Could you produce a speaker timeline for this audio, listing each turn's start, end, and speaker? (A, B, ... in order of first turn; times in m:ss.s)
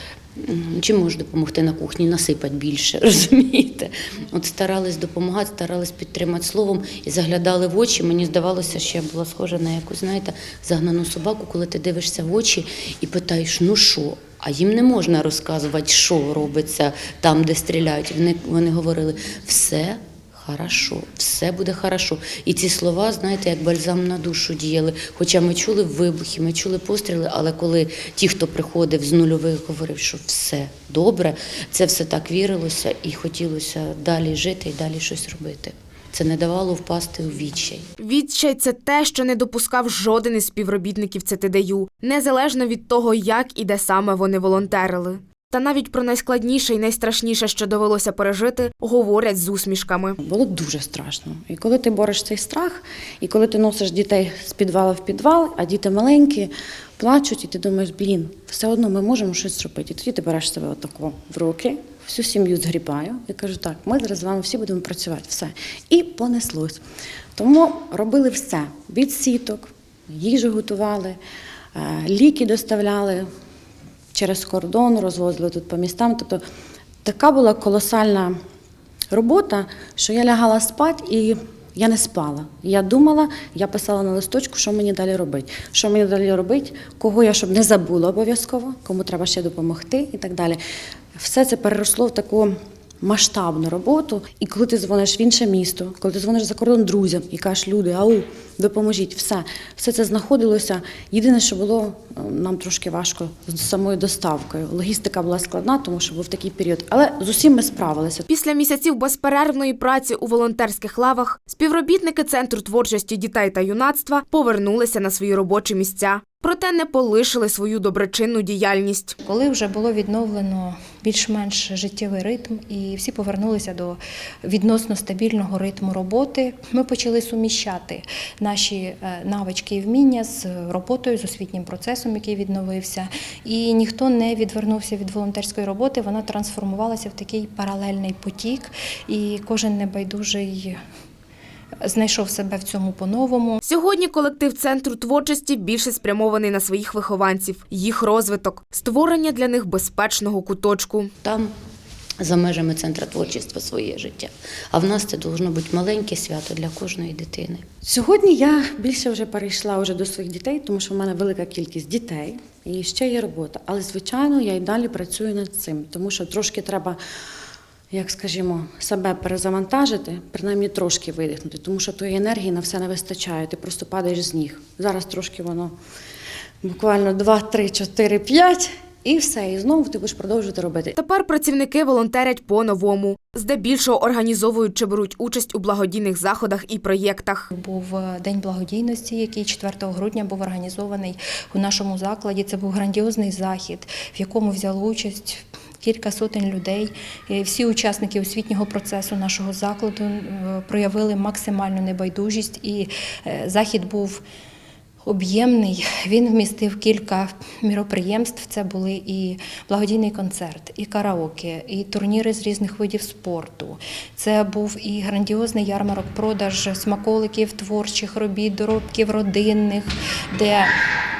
0:00.4-0:37.8 A
0:38.0-0:50.2 B
0:50.2-1:06.8 C
1:07.4-1:11.2 C
1:11.7-1:13.3 C
1:14.1-1:16.4 C
1:17.0-1:18.4 C
1:19.1-1:30.6 C
1:31.2-1:48.2 C
1:48.3-1:59.2 B
1:59.2-2:20.8 D
2:21.8-2:23.6 D
2:23.6-2:31.1 B
2:31.2-2:31.5 A
2:32.2-2:37.6 A
2:37.8-2:47.0 C
2:47.9-2:55.7 C
2:56.6-3:00.9 C
3:01.0-3:07.4 B
3:07.5-3:24.2 D
3:25.0-3:40.7 D